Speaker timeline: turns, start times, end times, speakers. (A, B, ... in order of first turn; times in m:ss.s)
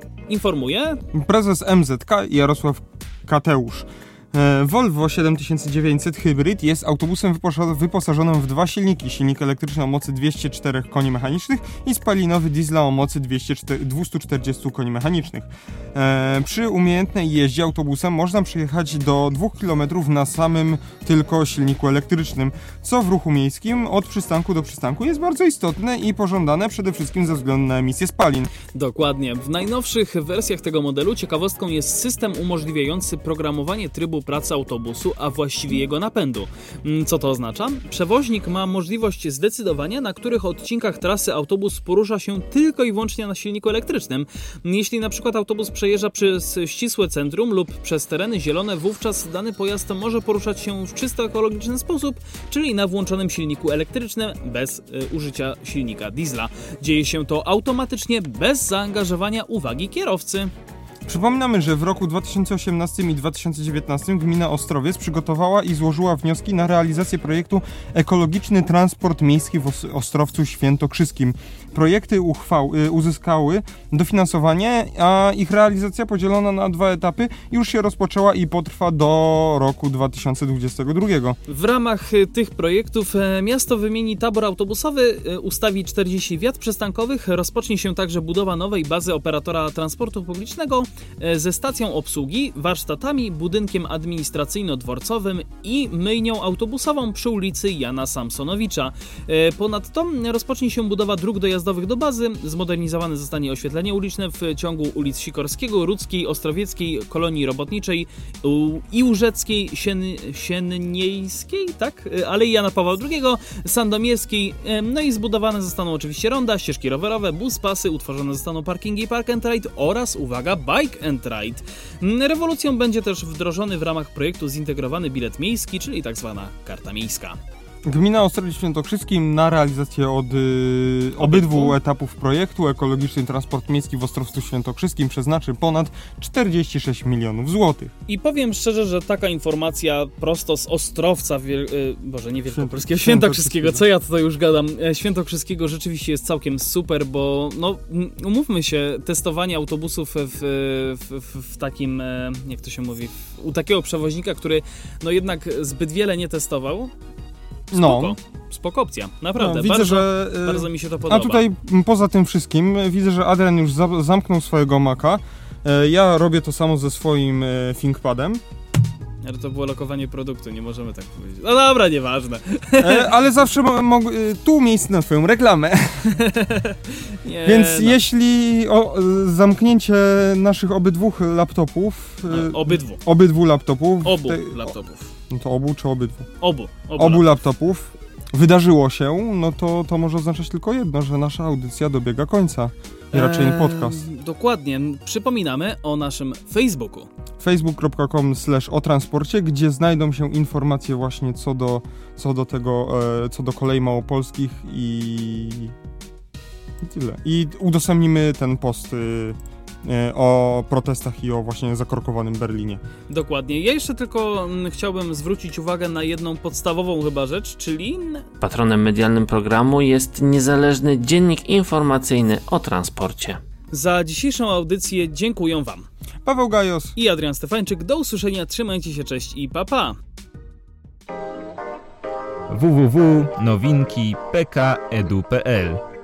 0:00.3-0:01.0 A
0:01.1-0:28.5 B
0:28.7-1:00.5 A
1:01.0-1:21.4 B
1:21.5-2:07.4 A
2:07.8-2:17.9 B
2:11.2-2:11.8 A
2:18.1-2:36.9 A
2:22.5-2:23.8 B
2:37.7-2:38.2 B
2:37.7-2:41.4 A
2:39.4-2:48.4 B
2:49.2-2:53.1 A
2:52.8-2:56.2 B
2:56.0-2:58.0 A
2:57.4-3:04.7 B
3:02.3-3:03.0 A
3:04.0-3:05.1 A
3:05.3-3:06.3 B
3:06.4-3:07.3 A
3:07.0-3:14.0 B
3:13.1-3:17.1 A
3:17.4-3:25.7 B
3:26.8-3:32.8 B
3:33.1-3:38.3 A
3:38.4-3:43.4 C
3:43.7-3:45.9 A
3:46.2-3:46.9 B
3:47.0-3:50.0 A
3:52.5-3:55.8 D